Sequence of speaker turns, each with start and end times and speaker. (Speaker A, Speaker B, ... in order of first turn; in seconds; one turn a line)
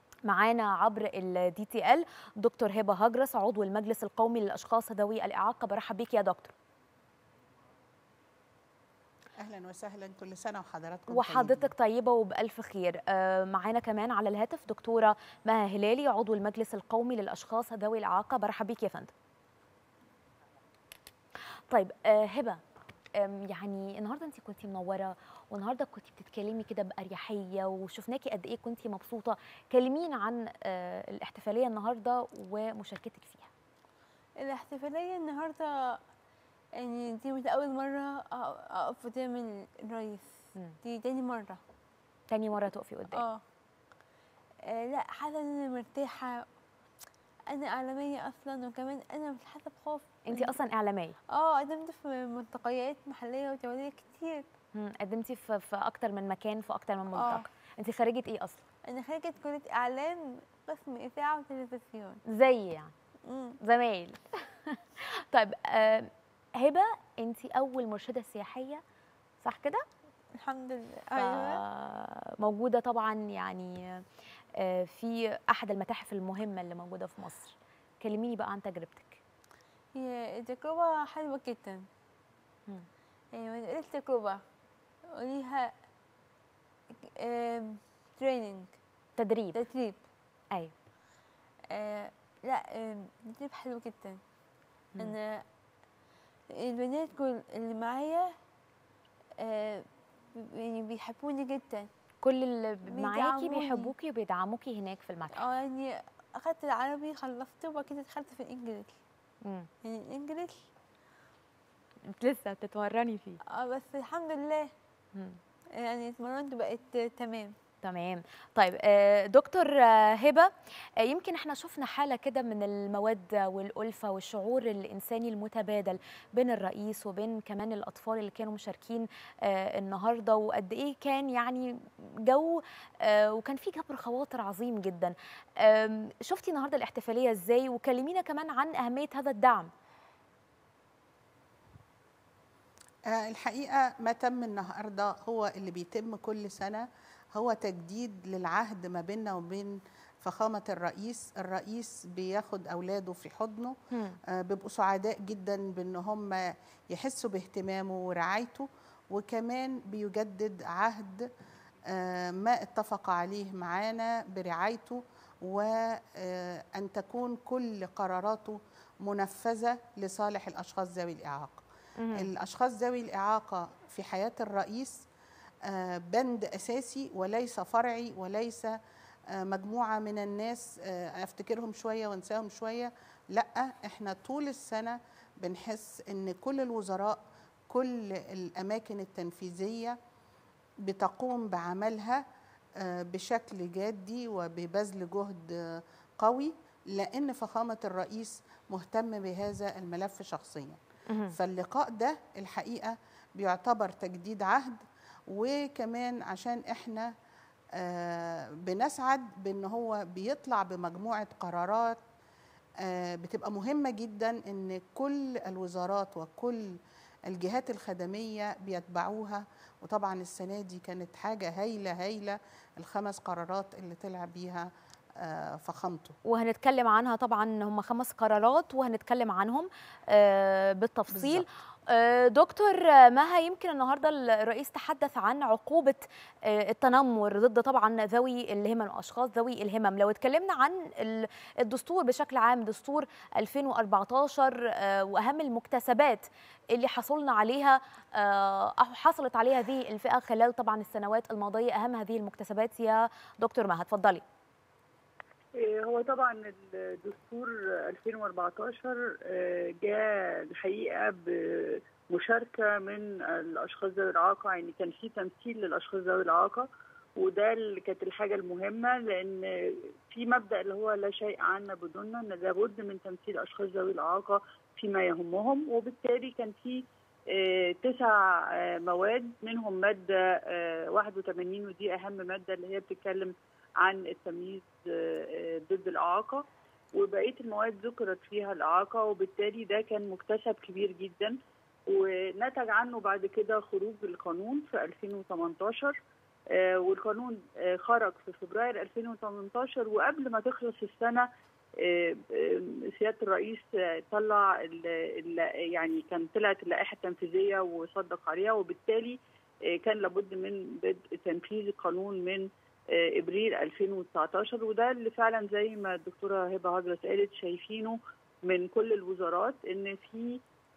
Speaker A: 0.2-6.5
Speaker B: 9.4-11.7
Speaker A: 11.1-19.1
Speaker A: 21.7-22.6
Speaker A: 23.2-33.5
Speaker C: 34.4-36.0
Speaker C: 36.8-40.3
Speaker C: 40.8-41.6
Speaker A: 42.3-43.2
Speaker C: 43.1-43.4
Speaker C: 44.7-46.5
Speaker C: 47.5-50.5
Speaker A: 50.3-51.1
Speaker C: 51.3-54.5
Speaker A: 54.8-58.7
Speaker C: 57.1-57.5
Speaker C: 58.9-62.2
Speaker A: 62.3-62.9
Speaker C: 63.3-63.6
Speaker A: 63.6-68.8
Speaker A: 69.4-69.8
Speaker C: 70.4-71.6
Speaker A: 71.2-74.0
Speaker A: 74.6-79.2
Speaker C: 80.0-81.9
Speaker C: 83.3-84.4
Speaker C: 85.1-85.7
Speaker C: 87.1-88.8
Speaker A: 89.2-89.6
Speaker C: 89.5-90.0
Speaker C: 91.7-94.2
Speaker C: 95.0-95.4
Speaker C: 96.5-98.3
Speaker C: 99.4-101.9
Speaker A: 102.2-105.4
Speaker C: 102.9-103.9
Speaker C: 105.4-109.0
Speaker A: 109.4-109.7
Speaker C: 109.8-110.6
Speaker A: 112.1-113.4
Speaker C: 113.5-114.7
Speaker C: 115.8-117.5
Speaker A: 117.8-139.7
Speaker B: 143.1-153.8
Speaker A: 153.9-154.2
Speaker B: 154.3-161.3
Speaker B: 161.9-171.6
Speaker A: 172.0-172.3
Speaker B: 172.1-175.1
Speaker B: 175.7-178.8
Speaker B: 179.3-190.0
Speaker B: 190.8-192.2
Speaker B: 192.8-207.1
Speaker A: 201.1-201.3
Speaker B: 207.8-212.0
Speaker B: 212.8-216.8
Speaker B: 217.3-224.7
Speaker B: 225.2-226.2
Speaker A: 226.3-254.2
Speaker B: 231.1-231.5
Speaker D: 255.6-266.7
Speaker D: 267.2-276.8
Speaker D: 277.3-286.4
Speaker D: 286.9-291.4
Speaker D: 291.9-295.9
Speaker D: 296.6-301.3
Speaker D: 301.8-309.2
Speaker D: 309.8-320.4